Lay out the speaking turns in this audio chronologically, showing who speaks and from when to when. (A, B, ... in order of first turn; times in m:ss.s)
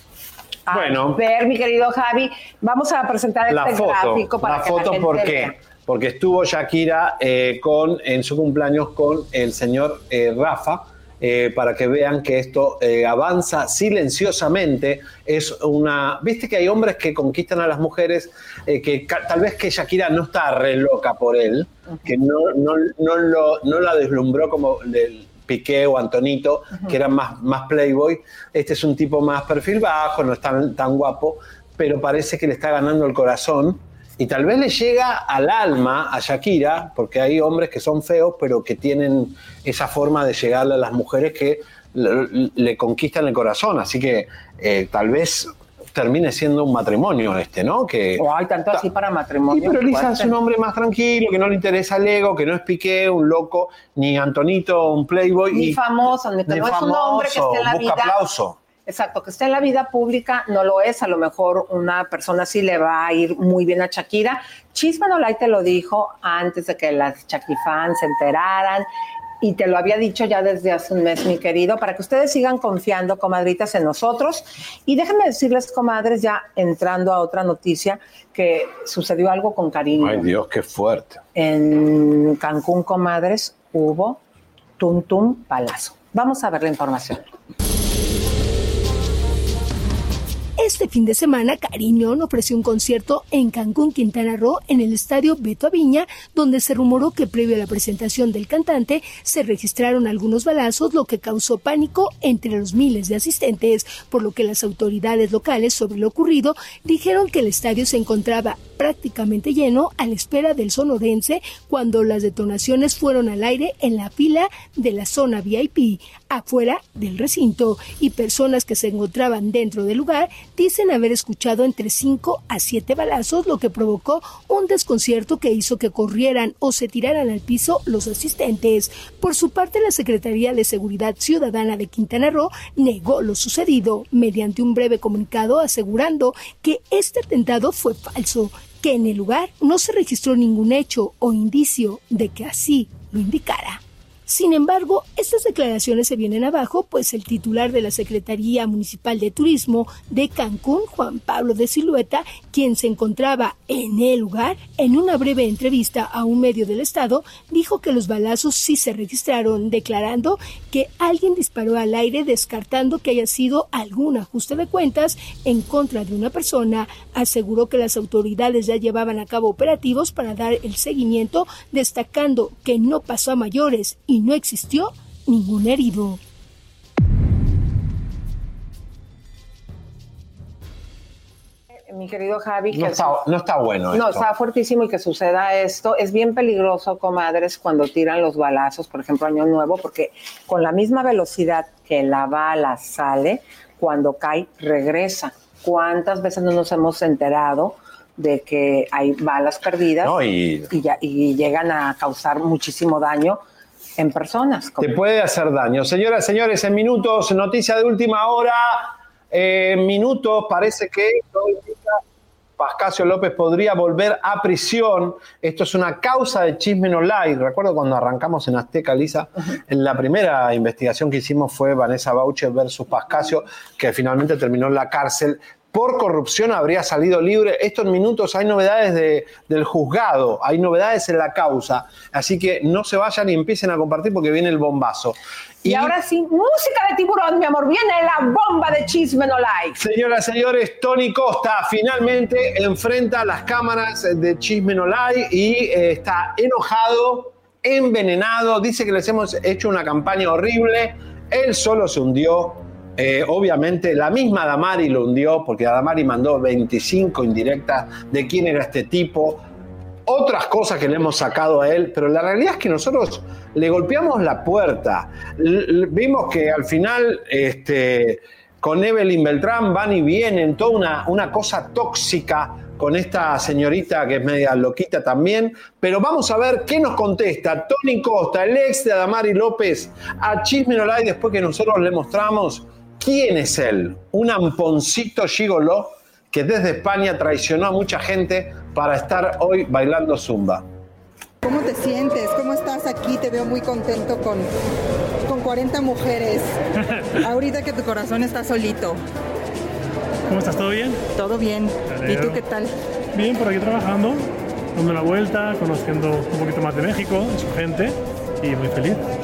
0:00.7-0:05.5 A
0:00.7-0:01.2 B
0:03.5-0:48.8 B
0:48.2-0:50.3 A
0:49.5-0:55.8 B
0:55.5-0:58.2 A
0:56.4-0:58.6 B
0:58.8-1:08.9 A
1:09.4-1:20.3 A
1:20.0-1:21.2 B
1:21.3-1:24.2 A
1:24.8-1:27.2 A
1:30.6-2:56.2 C
3:01.8-3:03.2 A
3:02.7-3:04.3 B
3:03.9-3:20.1 A
3:20.0-3:20.7 B
3:20.7-3:23.4 A
3:24.0-3:24.9 A
3:24.8-3:32.0 B
3:32.6-3:55.9 B
3:55.6-3:59.8 A
3:59.8-4:19.4 B
4:20.1-4:50.6 B
4:51.4-4:54.5 D
4:55.3-4:56.5 D
4:57.2-4:59.0 D
5:00.3-5:01.0 E
5:01.1-5:02.7 D
5:01.9-5:02.4 E
5:03.1-5:09.0 E